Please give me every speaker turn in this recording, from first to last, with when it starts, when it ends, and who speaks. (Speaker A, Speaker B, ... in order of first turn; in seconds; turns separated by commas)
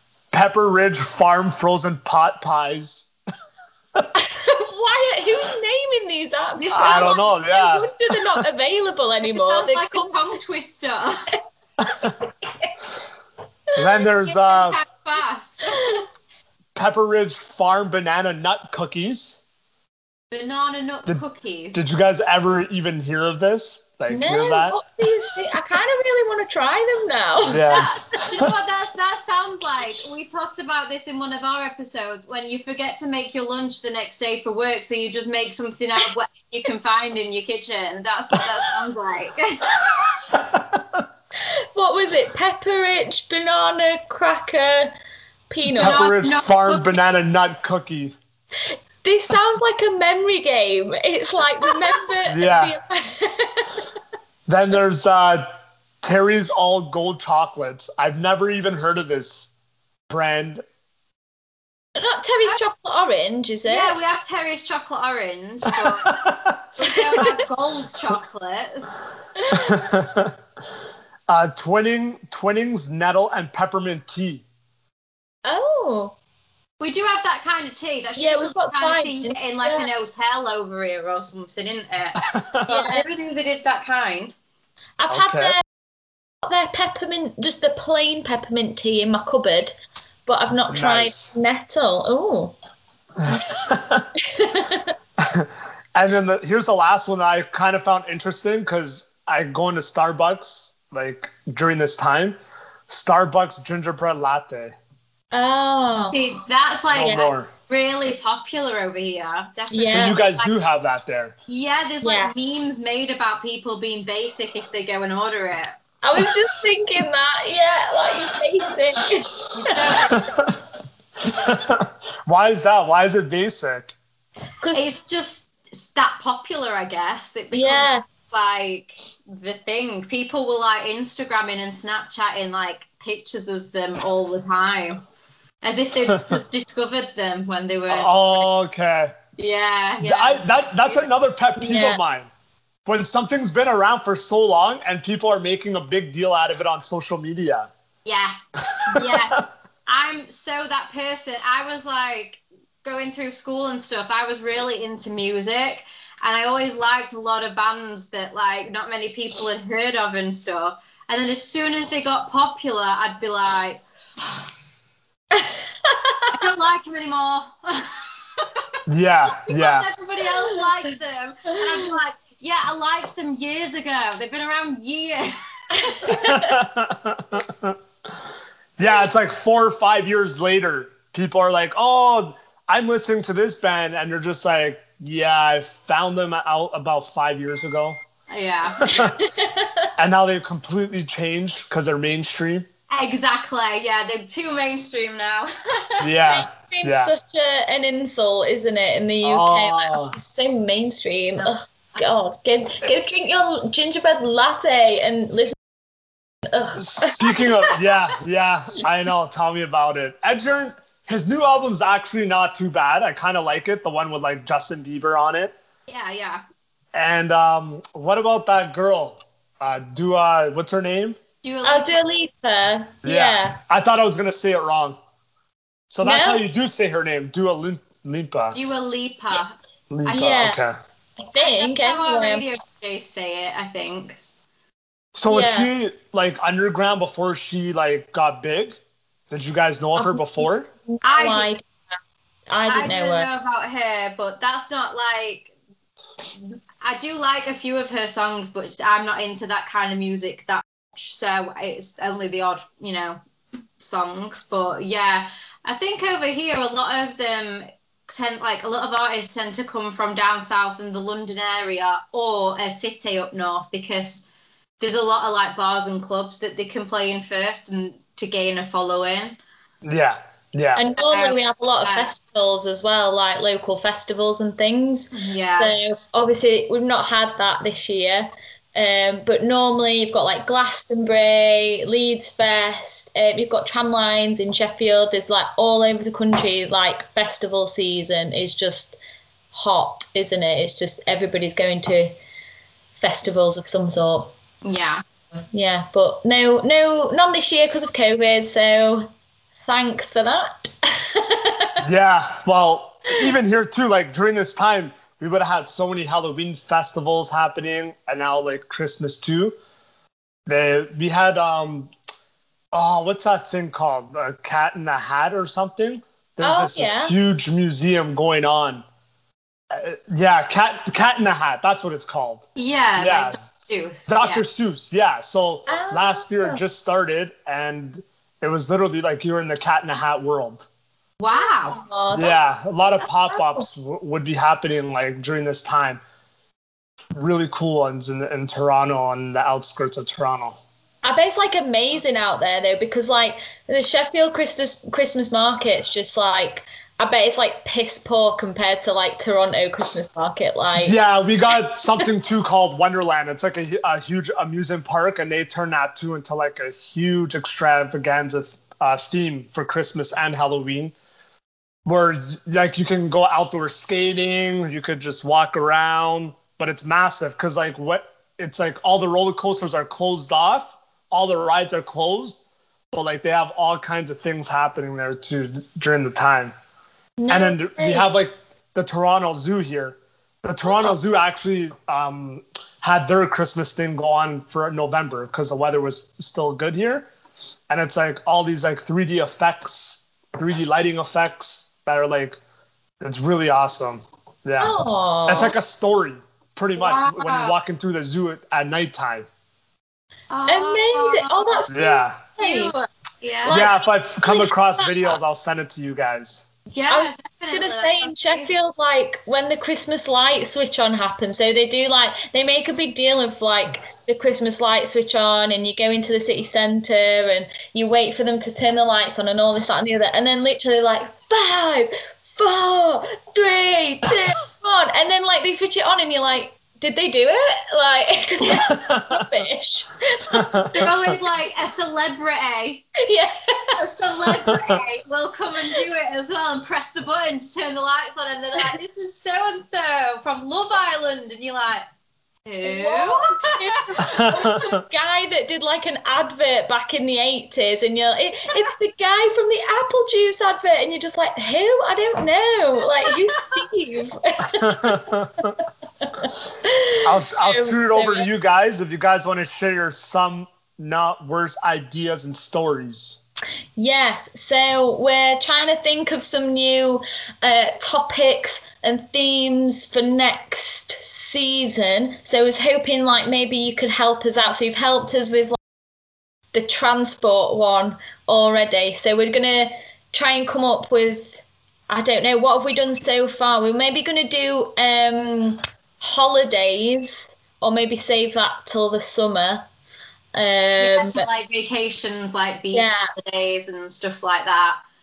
Speaker A: 0.3-3.1, Speaker B: 4.2-10.2, Speaker C: 6.6-7.2, Speaker A: 6.7-8.1, Speaker C: 9.3-11.2, Speaker A: 11.8-12.2, Speaker A: 13.8-14.8, Speaker C: 14.3-15.8, Speaker B: 15.7-16.0, Speaker A: 16.8-19.4, Speaker C: 20.3-21.8, Speaker A: 21.7-24.8, Speaker B: 24.1-27.9, Speaker A: 27.5-28.5, Speaker C: 27.7-39.8, Speaker A: 40.3-41.0, Speaker B: 41.8-45.0, Speaker B: 45.5-46.1, Speaker C: 45.8-47.1, Speaker A: 45.8-48.2, Speaker B: 48.7-53.8, Speaker A: 52.3-52.8, Speaker A: 54.5-55.5, Speaker A: 56.0-59.5, Speaker A: 60.1-60.6, Speaker B: 62.0-64.0, Speaker C: 63.7-66.2, Speaker A: 65.7-66.6, Speaker C: 66.8-69.0, Speaker B: 66.9-67.5, Speaker B: 69.4-69.8, Speaker A: 69.5-70.3, Speaker A: 71.3-74.5, Speaker B: 75.5-76.2, Speaker C: 76.8-84.3, Speaker B: 78.2-79.9, Speaker A: 82.2-82.7, Speaker B: 82.7-83.1, Speaker B: 85.0-85.6, Speaker A: 85.1-85.6, Speaker B: 86.4-92.5, Speaker A: 90.7-91.3, Speaker A: 93.2-94.1, Speaker B: 94.2-94.9, Speaker A: 95.2-102.4, Speaker A: 102.9-104.8, Speaker B: 105.3-106.2, Speaker C: 106.0-110.5, Speaker A: 106.9-107.5, Speaker B: 109.7-110.2, Speaker A: 109.8-111.3, Speaker C: 111.5-115.8, Speaker B: 112.0-112.3, Speaker B: 116.0-119.9, Speaker C: 119.5-120.5, Speaker A: 120.1-120.6, Speaker A: 121.2-124.0, Speaker C: 124.7-135.0, Speaker B: 127.5-128.0, Speaker C: 135.6-138.4, Speaker A: 136.1-136.4, Speaker A: 137.9-139.2, Speaker C: 139.4-141.1, Speaker A: 140.0-142.3, Speaker B: 141.6-142.0, Speaker A: 142.9-147.7, Speaker C: 148.1-148.4, Speaker A: 148.7-149.4, Speaker C: 148.9-164.5, Speaker B: 165.3-166.3, Speaker C: 166.3-168.6, Speaker A: 168.9-169.9, Speaker C: 169.5-176.2, Speaker B: 175.8-176.6, Speaker A: 176.1-177.8, Speaker A: 178.8-188.0, Speaker C: 188.3-188.9, Speaker A: 188.8-189.1, Speaker B: 188.9-189.9, Speaker A: 190.0-192.7, Speaker C: 192.9-196.2, Speaker A: 196.0-197.1, Speaker B: 196.3-205.6, Speaker A: 199.2-200.2, Speaker B: 206.5-207.8, Speaker A: 206.8-215.6, Speaker C: 215.9-216.4, Speaker A: 216.9-221.2, Speaker C: 221.4-222.0, Speaker B: 221.6-223.6, Speaker A: 223.0-225.0, Speaker A: 225.9-228.6, Speaker B: 226.0-226.4, Speaker C: 228.5-229.6, Speaker A: 229.9-230.8, Speaker C: 230.1-230.5, Speaker B: 230.1-230.6, Speaker B: 231.2-232.5, Speaker C: 231.4-234.2, Speaker A: 235.2-240.7, Speaker B: 235.3-235.7, Speaker B: 240.0-241.8, Speaker C: 241.0-241.5, Speaker B: 242.5-243.5, Speaker C: 242.7-245.5, Speaker C: 246.8-253.2, Speaker C: 253.8-264.3, Speaker C: 264.8-269.4, Speaker A: 269.8-270.8, Speaker B: 270.8-289.0, Speaker C: 270.8-272.1, Speaker C: 275.1-275.8, Speaker B: 289.5-292.1, Speaker B: 293.0-294.3, Speaker C: 294.6-295.0, Speaker B: 295.5-299.1, Speaker B: 299.7-301.8, Speaker A: 301.8-309.6, Speaker A: 310.5-311.9, Speaker A: 312.7-318.8, Speaker B: 316.4-317.2, Speaker A: 319.7-322.4, Speaker C: 322.6-324.4, Speaker A: 323.0-330.6, Speaker B: 325.7-326.6, Speaker C: 331.2-331.8, Speaker B: 331.3-333.7, Speaker A: 332.1-336.0, Speaker A: 337.1-340.6, Speaker B: 341.0-351.0, Speaker A: 350.8-360.9, Speaker A: 361.9-372.4, Speaker A: 372.9-376.6, Speaker B: 377.2-378.1, Speaker A: 377.3-387.1, Speaker A: 387.7-392.4, Speaker A: 393.0-394.8, Speaker B: 394.6-395.6, Speaker A: 395.3-399.3, Speaker C: 396.8-397.6, Speaker C: 400.3-401.6, Speaker B: 400.5-402.8, Speaker A: 401.7-402.2, Speaker C: 402.4-403.7, Speaker B: 403.5-405.1, Speaker A: 403.5-406.5, Speaker C: 406.7-408.5, Speaker B: 406.9-430.9, Speaker A: 428.7-429.1, Speaker A: 430.3-430.9, Speaker C: 430.8-432.9, Speaker B: 433.0-433.8, Speaker C: 433.8-441.9, Speaker A: 434.4-434.8, Speaker C: 442.5-443.8, Speaker B: 442.6-458.3, Speaker A: 444.1-444.8, Speaker A: 454.6-455.6, Speaker A: 457.0-463.2, Speaker B: 463.8-475.6, Speaker B: 476.5-489.7, Speaker B: 490.3-491.3, Speaker C: 490.8-494.8, Speaker B: 492.7-493.1